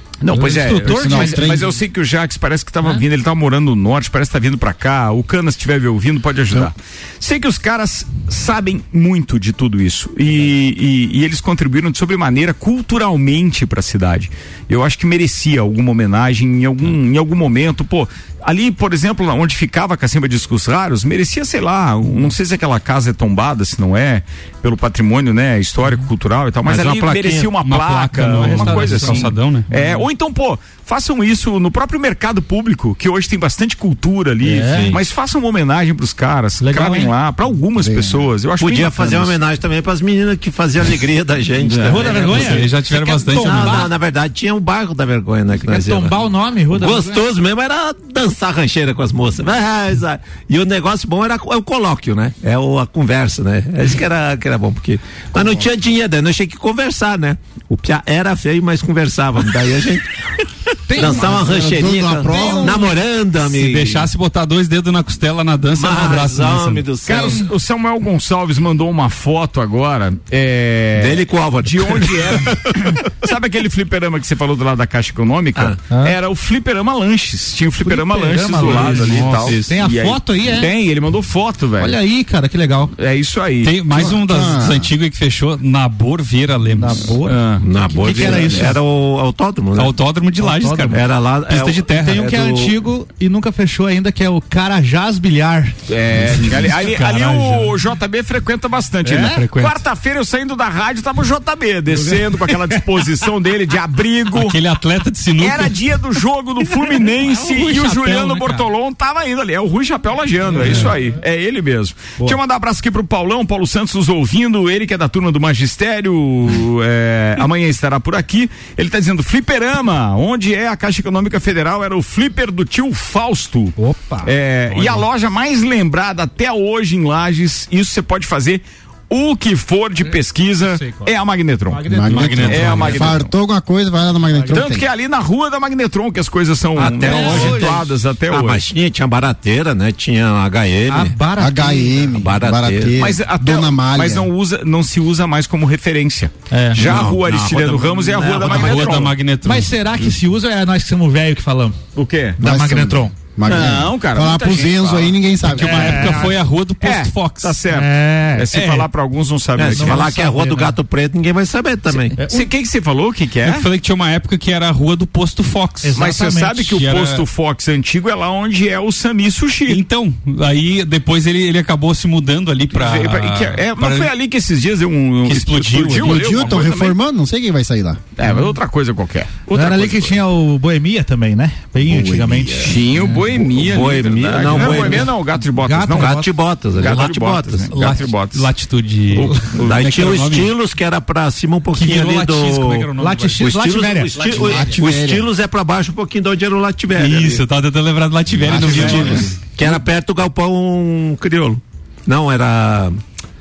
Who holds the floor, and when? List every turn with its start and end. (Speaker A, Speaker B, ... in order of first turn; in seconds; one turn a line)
Speaker A: 0.2-39.4
Speaker B: 0.3-1.6
Speaker C: 0.5-1.7
Speaker D: 26.6-27.5
Speaker E: 27.6-29.7
Speaker B: 28.3-30.0
Speaker B: 34.4-35.0
Speaker D: 34.7-35.0
Speaker B: 36.6-37.1
Speaker C: 37.8-38.3
Speaker D: 38.6-42.7
Speaker B: 41.8-43.9
Speaker E: 42.1-43.9
Speaker D: 43.3-46.2
Speaker B: 45.6-47.2
Speaker D: 46.7-60.0
Speaker B: 60.9-62.8
Speaker D: 60.9-64.1
Speaker C: 61.0-63.0
Speaker E: 63.4-66.9
Speaker D: 65.8-67.5
Speaker A: 67.0-82.0
Speaker D: 71.0-72.7
Speaker B: 75.9-76.2
Speaker B: 77.8-80.7
Speaker E: 78.6-79.5
Speaker D: 79.3-79.7
Speaker B: 81.8-82.9
Speaker A: 83.0-83.8
Speaker E: 83.6-87.2
Speaker C: 83.9-84.9
Speaker B: 86.7-88.8
Speaker A: 87.2-88.5
Speaker D: 87.6-90.0
Speaker E: 89.8-92.2
Speaker B: 90.4-91.0
Speaker D: 90.9-92.8
Speaker B: 91.9-95.8
Speaker A: 95.9-104.6
Speaker E: 96.2-97.7
Speaker B: 99.0-99.4
Speaker E: 99.2-99.8
Speaker B: 102.1-102.5
Speaker E: 104.3-105.8
Speaker A: 105.4-131.9
Speaker B: 107.0-108.7
Speaker B: 110.5-110.9
Speaker B: 123.8-124.3
Speaker E: 124.7-125.0
Speaker B: 130.0-131.1
Speaker B: 131.7-133.0
Speaker C: 131.9-134.9
Speaker E: 132.1-133.2
Speaker A: 132.4-133.3
Speaker B: 134.3-134.6
Speaker A: 134.5-138.6
Speaker D: 136.8-141.2
Speaker B: 136.8-137.8
Speaker B: 140.9-142.2
Speaker C: 141.4-144.3
Speaker D: 142.2-143.0
Speaker A: 142.9-149.1
Speaker B: 146.5-146.9
Speaker D: 146.8-149.1
Speaker E: 148.4-149.7
Speaker B: 149.4-151.8
Speaker A: 151.9-152.4
Speaker B: 152.4-153.1
Speaker C: 152.4-156.2
Speaker A: 153.4-155.2
Speaker E: 155.4-157.6
Speaker B: 155.6-156.3
Speaker A: 156.8-160.1
Speaker B: 157.7-158.9
Speaker D: 159.6-162.2
Speaker B: 159.7-160.8
Speaker B: 162.2-162.5
Speaker A: 162.2-163.7
Speaker E: 163.4-166.0
Speaker B: 165.8-166.8
Speaker A: 166.0-169.8
Speaker E: 166.7-167.2
Speaker E: 169.7-174.1
Speaker A: 172.7-177.0
Speaker E: 175.2-176.4
Speaker C: 176.0-178.0
Speaker A: 178.2-180.2
Speaker B: 179.5-183.2
Speaker C: 181.8-182.8
Speaker A: 182.6-188.5
Speaker D: 183.6-185.1
Speaker B: 184.5-186.3
Speaker D: 185.9-187.7
Speaker E: 187.7-190.5
Speaker A: 189.1-189.9
Speaker D: 189.6-197.4
Speaker E: 191.8-193.4
Speaker B: 191.8-194.8
Speaker C: 194.2-195.3
Speaker E: 196.9-199.3
Speaker D: 198.4-203.0
Speaker C: 198.4-199.3